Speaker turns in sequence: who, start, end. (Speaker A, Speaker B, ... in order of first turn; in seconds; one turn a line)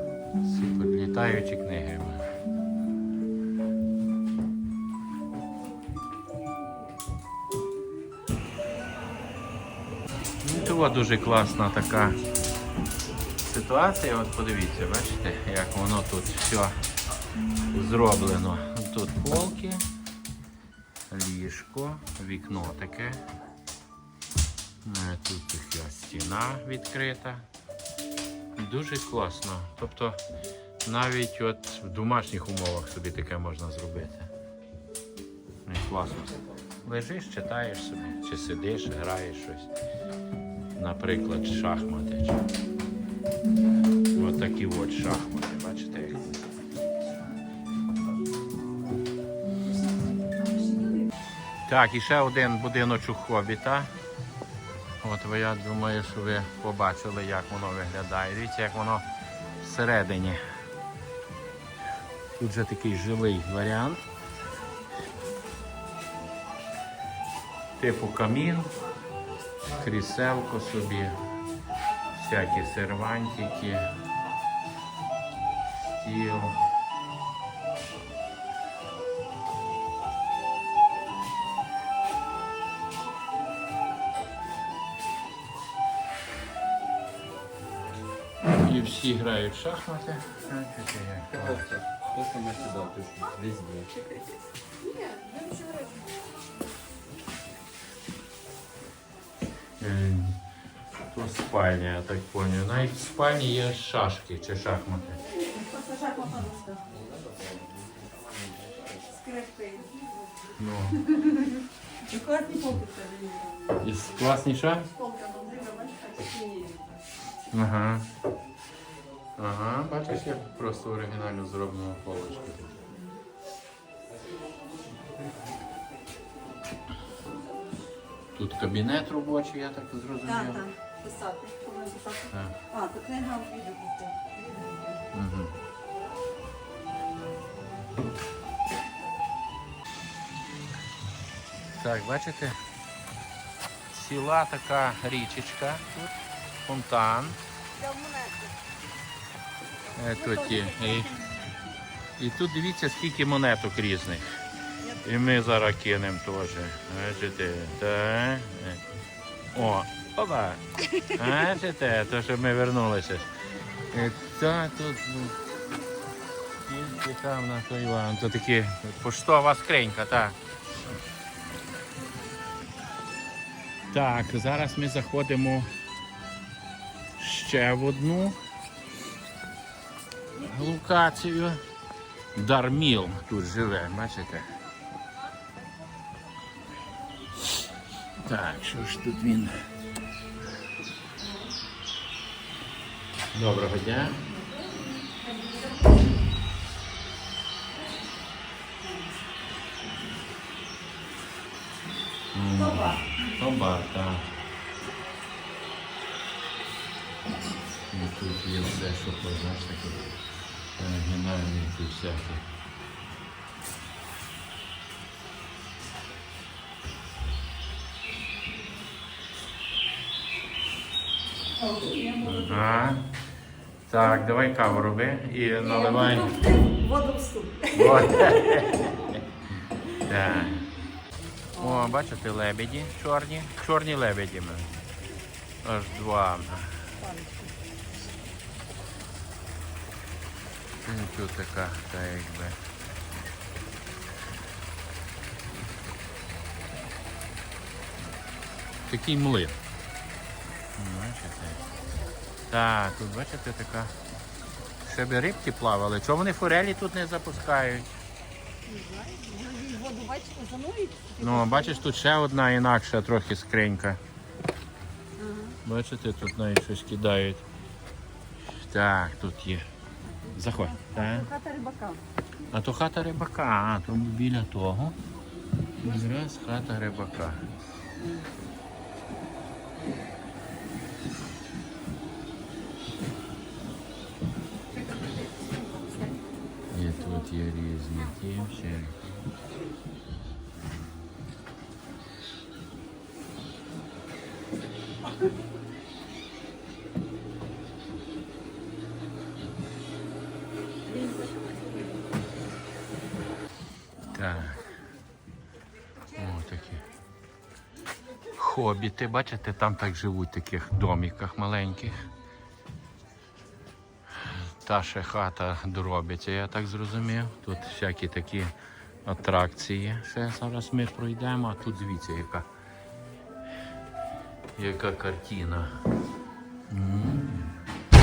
Speaker A: 0.4-2.2
Speaker A: 10.4-12.2
Speaker A: 13.4-16.8
Speaker A: 17.7-19.8
Speaker A: 21.1-23.2
Speaker A: 24.8-27.4
Speaker A: 28.6-30.2
Speaker A: 30.8-34.3
Speaker A: 35.6-39.7
Speaker A: 40.8-42.4
Speaker A: 44.1-46.4
Speaker A: 51.7-53.9
Speaker A: 55.0-59.0
Speaker A: 59.6-60.4
Speaker A: 62.4-64.0
Speaker A: 67.8-68.7
Speaker A: 69.7-71.2
Speaker A: 72.1-73.9
Speaker A: 75.9-76.6
Speaker A: 88.6-91.7
Speaker B: 91.5-93.9
Speaker C: 95.0-95.9
Speaker A: 99.8-100.4
Speaker A: 101.1-105.2
Speaker C: 105.3-106.8
Speaker B: 107.4-108.8
Speaker C: 109.0-110.2
Speaker A: 110.6-111.1
Speaker C: 111.0-113.8
Speaker A: 113.8-114.9
Speaker C: 114.9-117.0
Speaker A: 117.5-118.1
Speaker A: 119.4-122.9
Speaker A: 128.3-130.6
Speaker C: 130.2-135.0
Speaker A: 132.3-132.6
Speaker A: 135.1-135.5
Speaker A: 141.8-142.6
Speaker A: 143.9-146.1
Speaker A: 146.7-147.4
Speaker C: 147.8-148.4
Speaker A: 149.9-151.1
Speaker C: 150.2-151.4
Speaker A: 152.2-154.3
Speaker A: 155.0-158.8
Speaker A: 159.5-160.6
Speaker C: 160.9-161.5
Speaker A: 161.1-163.3
Speaker A: 163.9-165.4
Speaker A: 166.6-170.4
Speaker A: 173.9-175.7
Speaker A: 177.2-178.4
Speaker A: 180.4-181.6
Speaker A: 182.3-184.5
Speaker A: 188.2-189.5
Speaker C: 191.2-191.5
Speaker A: 193.3-194.2
Speaker C: 194.3-196.1
Speaker C: 198.8-199.1
Speaker A: 202.3-204.3
Speaker C: 202.5-203.1
Speaker A: 207.9-210.2
Speaker A: 210.8-212.4
Speaker C: 221.5-222.7
Speaker A: 222.2-223.1
Speaker A: 223.9-226.3
Speaker C: 225.6-228.9
Speaker A: 227.7-228.8
Speaker A: 230.0-230.7
Speaker A: 231.6-234.8
Speaker C: 231.6-232.0
Speaker A: 235.6-236.9
Speaker C: 237.0-237.5
Speaker A: 240.8-242.6
Speaker A: 248.9-249.6
Speaker A: 250.8-251.6
Speaker C: 251.6-252.0
Speaker A: 252.5-253.9
Speaker A: 254.8-257.9
Speaker C: 258.6-261.9
Speaker A: 261.2-264.0
Speaker C: 265.2-265.6
Speaker A: 265.6-267.4
Speaker A: 268.5-269.7
Speaker C: 270.3-272.0
Speaker A: 270.3-271.3
Speaker A: 272.5-275.0
Speaker A: 275.8-277.4
Speaker C: 285.4-286.1
Speaker A: 286.7-289.0
Speaker C: 300.9-302.1
Speaker A: 304.1-304.6
Speaker C: 306.1-306.8
Speaker A: 306.2-306.8
Speaker A: 308.3-312.0
Speaker A: 314.3-318.5
Speaker A: 319.0-322.5
Speaker A: 324.6-325.7
Speaker A: 326.7-327.5